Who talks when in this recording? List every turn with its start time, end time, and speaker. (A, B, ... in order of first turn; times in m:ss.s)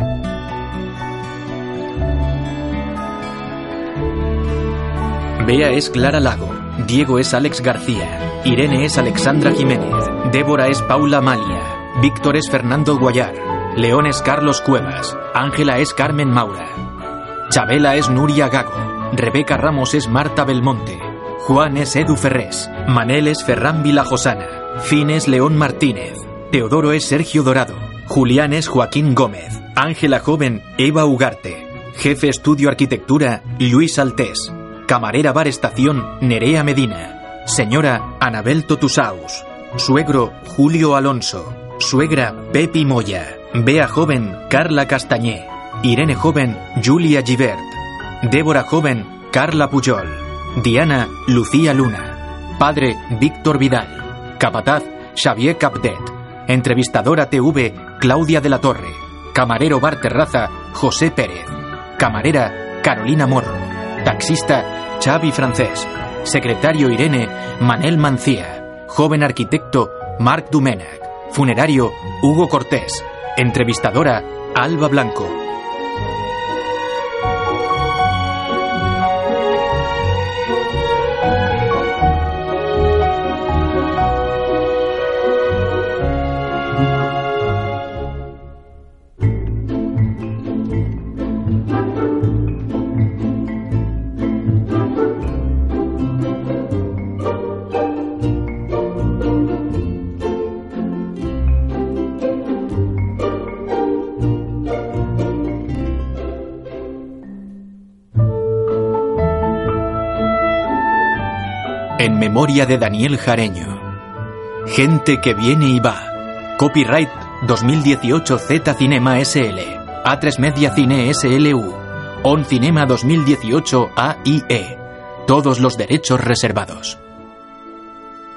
0:05.4-0:16.9 A
0:17.5-1:15.4 A
1:52.0-1:53.8 A
1:54.6-2:07.0 A